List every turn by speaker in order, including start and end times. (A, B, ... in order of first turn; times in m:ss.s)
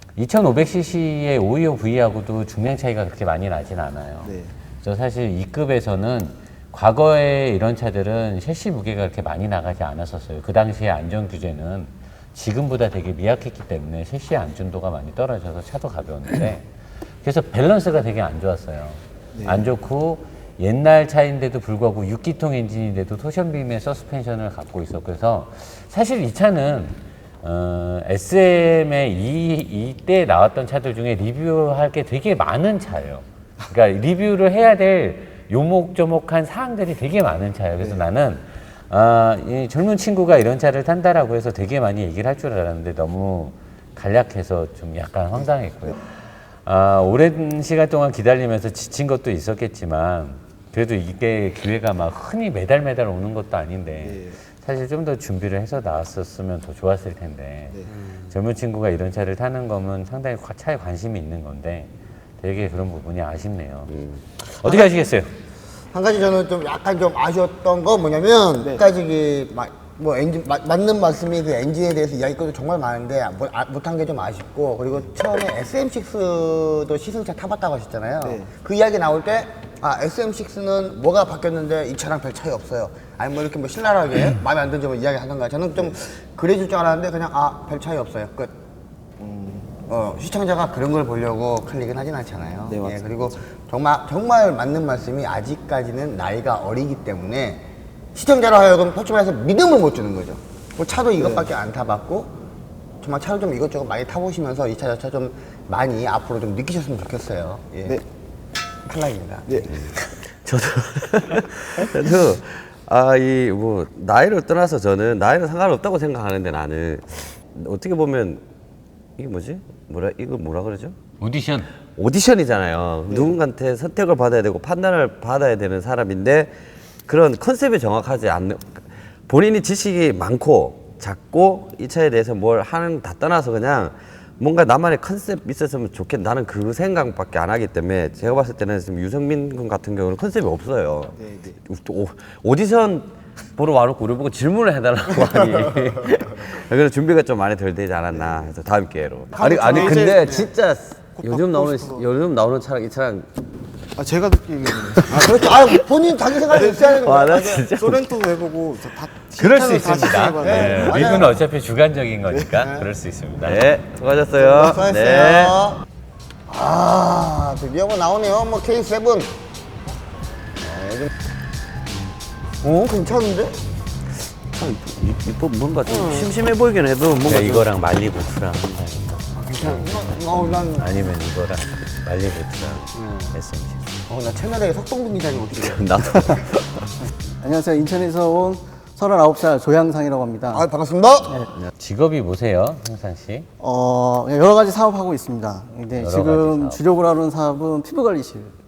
0:00.2-0:16.7 A
0:04.2-0:04.5 B
0:17.2-0:46.1 A
0:19.3-0:19.7 B
0:37.8-0:38.0 B
0:46.6-0:57.8 A
0:54.0-0:54.4 B
0:58.3-1:05.3 A
1:05.9-1:28.6 C
1:08.6-1:08.9 B
1:18.2-1:18.5 B
1:29.2-1:29.7 B
1:29.9-1:42.3 C
1:32.6-1:33.4 B
1:41.1-1:41.5 B
1:43.0-1:48.0 C
1:48.8-1:49.7 C
1:49.4-1:49.7 B
1:50.4-1:58.4 D
1:59.2-2:01.0 D
2:01.2-2:01.7 A
2:01.9-2:06.5 D
2:07.0-2:33.3 D
2:21.1-2:21.6 B
2:29.3-2:30.4 B
2:29.4-2:30.5 C
2:31.2-2:32.1 B
2:34.0-2:35.5 B
2:35.1-2:37.6 C
2:36.5-2:41.3 B
2:37.0-2:38.0 D
2:39.4-2:43.6 A
2:40.4-2:41.3 C
2:43.4-2:45.6 D
2:44.4-2:45.8 C
2:46.5-2:49.4 C
2:50.6-2:51.1 C
2:52.6-2:53.6 C
2:54.5-2:57.7 D
2:57.2-3:04.0 A
2:59.4-3:00.9 C
3:02.9-3:03.3 C
3:04.1-3:05.8 C
3:05.6-3:06.7 D
3:07.4-3:10.6 E
3:10.5-3:11.4 C
3:11.8-3:13.5 A
3:13.6-3:18.5 E
3:16.0-3:16.8 A